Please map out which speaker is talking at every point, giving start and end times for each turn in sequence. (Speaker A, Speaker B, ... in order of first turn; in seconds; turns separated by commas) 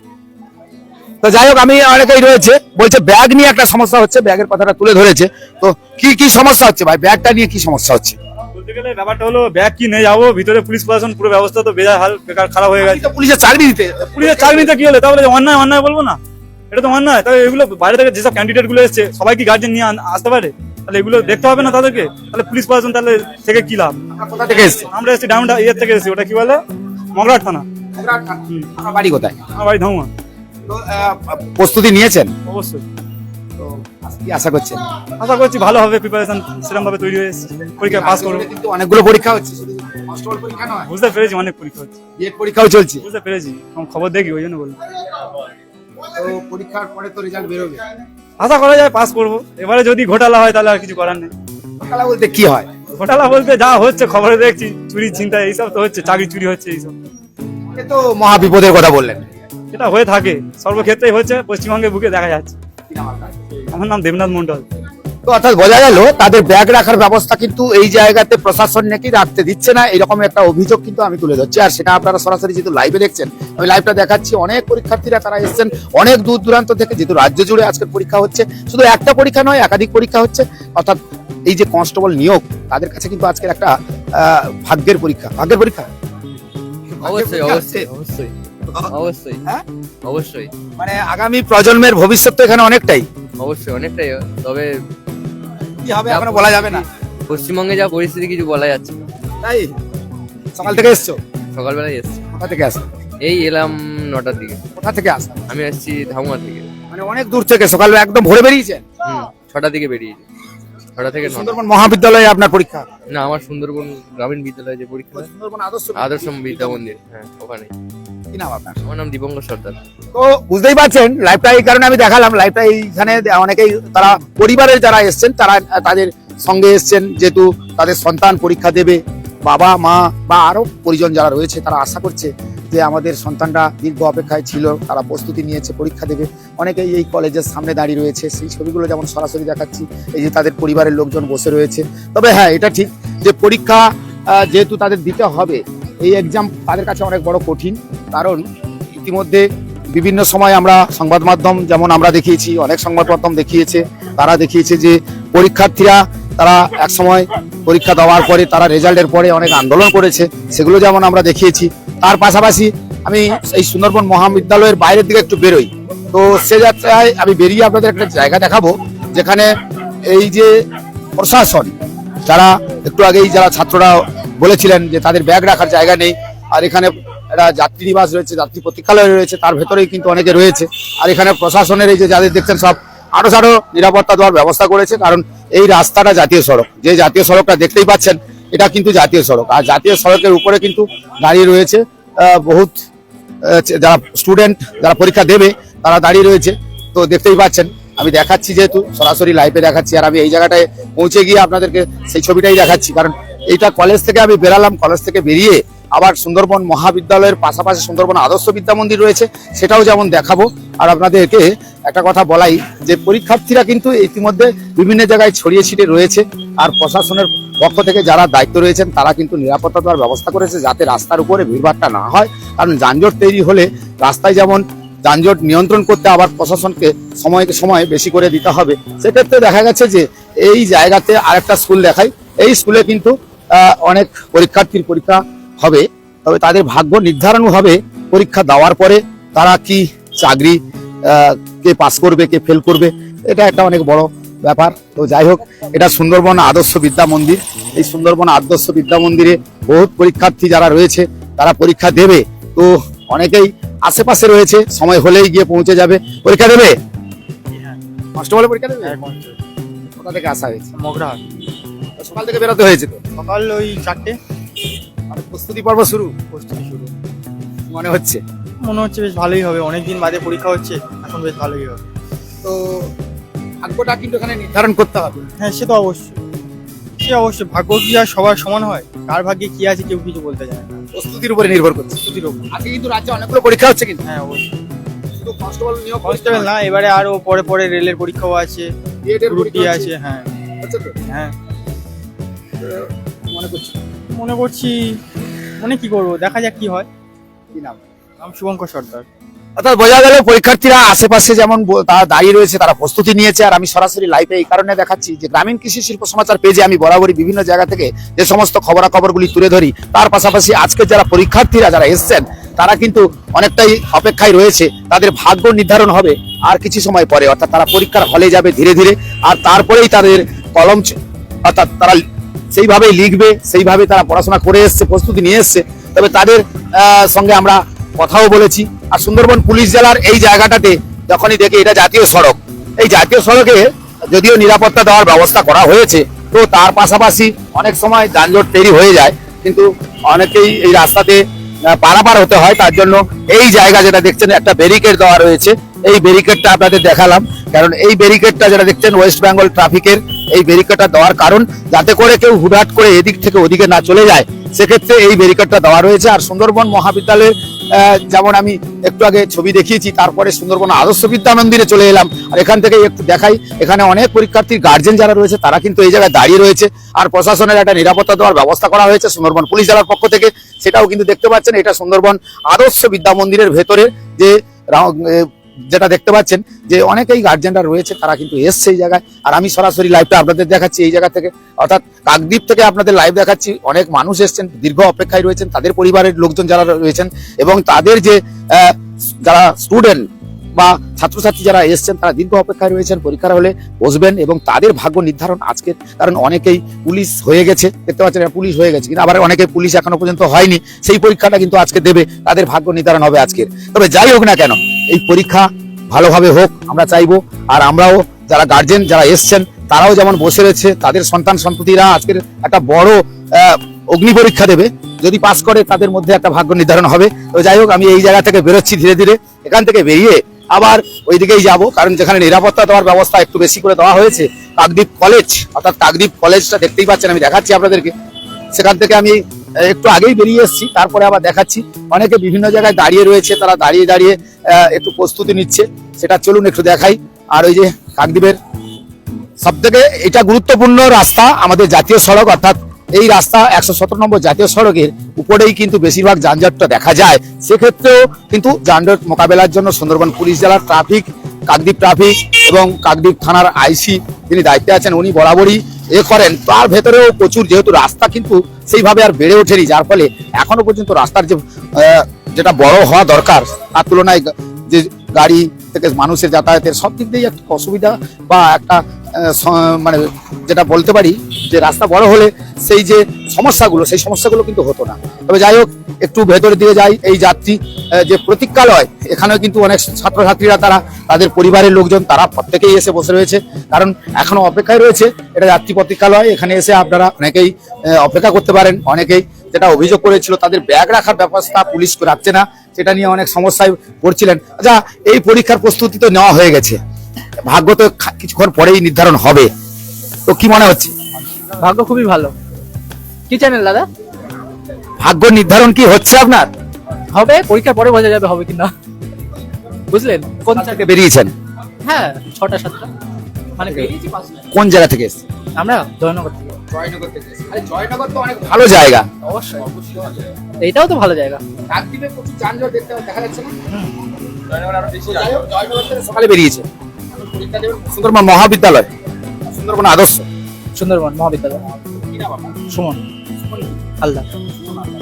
Speaker A: 1.2-8.2, Speaker B: 8.5-13.1, Speaker A: 12.8-14.7, Speaker B: 14.1-16.2, Speaker B: 16.7-24.0, Speaker A: 24.1-24.9, Speaker B: 24.9-26.6, Speaker B: 27.1-27.6, Speaker A: 27.9-29.4, Speaker B: 29.5-30.1, Speaker A: 30.7-32.3, Speaker B: 32.5-32.8, Speaker A: 33.6-34.8, Speaker B: 35.2-38.5, Speaker A: 37.8-40.9, Speaker B: 40.8-42.0, Speaker A: 42.2-43.0, Speaker B: 43.0-44.8, Speaker A: 46.1-47.8, Speaker B: 48.4-51.3, Speaker A: 51.8-52.7, Speaker B: 52.9-57.0, Speaker A: 57.8-59.2, Speaker B: 59.7-62.6, Speaker A: 62.9-63.3, Speaker B: 63.7-64.7, Speaker A: 65.2-85.9, Speaker A: 87.0-87.9, Speaker C: 87.0-89.4, Speaker C: 90.0-90.5, Speaker A: 90.8-93.1, Speaker C: 93.4-94.7, Speaker A: 95.8-96.8, Speaker C: 96.1-99.0, Speaker A: 99.4-99.7, Speaker A: 100.5-101.2, Speaker C: 101.5-102.2, Speaker A: 102.3-102.8, Speaker C: 103.2-104.6, Speaker A: 104.8-105.5, Speaker C: 105.5-106.7, Speaker A: 106.9-108.8, Speaker C: 109.0-110.2, Speaker C: 111.0-111.6, Speaker A: 111.2-112.8, Speaker C: 113.1-115.3, Speaker A: 115.1-116.8, Speaker C: 116.0-117.7, Speaker A: 118.3-118.8, Speaker C: 118.8-119.8, Speaker A: 120.1-169.5, Speaker A: 170.1-170.5, Speaker A: 171.2-171.7, Speaker A: 172.2-192.7, Speaker A: 193.4-256.7, Speaker D: 257.5-257.8, Speaker A: 258.1-258.9, Speaker D: 258.8-259.4, Speaker A: 260.0-260.7, Speaker D: 260.8-261.2, Speaker A: 262.0-263.0, Speaker D: 263.1-264.2, Speaker A: 265.1-266.1, Speaker D: 266.3-266.9, Speaker A: 267.7-268.2, Speaker D: 268.6-271.8, Speaker A: 272.4-272.9, Speaker A: 273.6-275.3, Speaker D: 275.4-276.2, Speaker D: 277.0-280.8, Speaker A: 280.9-284.0, Speaker D: 282.0-282.5, Speaker D: 284.0-284.6, Speaker A: 285.1-286.5, Speaker D: 286.0-288.7, Speaker A: 289.1-289.9, Speaker D: 289.3-290.3, Speaker A: 290.6-290.9, Speaker D: 291.1-291.4, Speaker A: 292.6-293.7, Speaker D: 294.1-295.0, Speaker D: 295.6-296.9, Speaker A: 297.5-297.8, Speaker D: 298.2-299.1, Speaker A: 299.6-322.0, Speaker A: 322.5-427.9, Speaker A: 428.5-438.4, Speaker A: 439.4-496.8, Speaker A: 497.5-499.5, Speaker A: 500.3-500.9, Speaker E: 501.6-502.3, Speaker E: 503.3-503.9, Speaker A: 505.0-506.5, Speaker E: 507.1-508.7, Speaker E: 509.9-510.8, Speaker A: 510.5-511.3, Speaker E: 511.8-512.9, Speaker E: 513.6-514.3, Speaker A: 514.5-515.2, Speaker E: 515.5-516.5, Speaker A: 516.7-519.1, Speaker E: 519.2-519.9, Speaker E: 520.6-521.4, Speaker A: 521.7-523.5, Speaker A: 524.5-526.6, Speaker A: 527.2-528.9, Speaker A: 529.5-530.2, Speaker E: 530.8-531.6, Speaker A: 532.1-532.4, Speaker E: 532.7-533.0, Speaker E: 534.0-534.2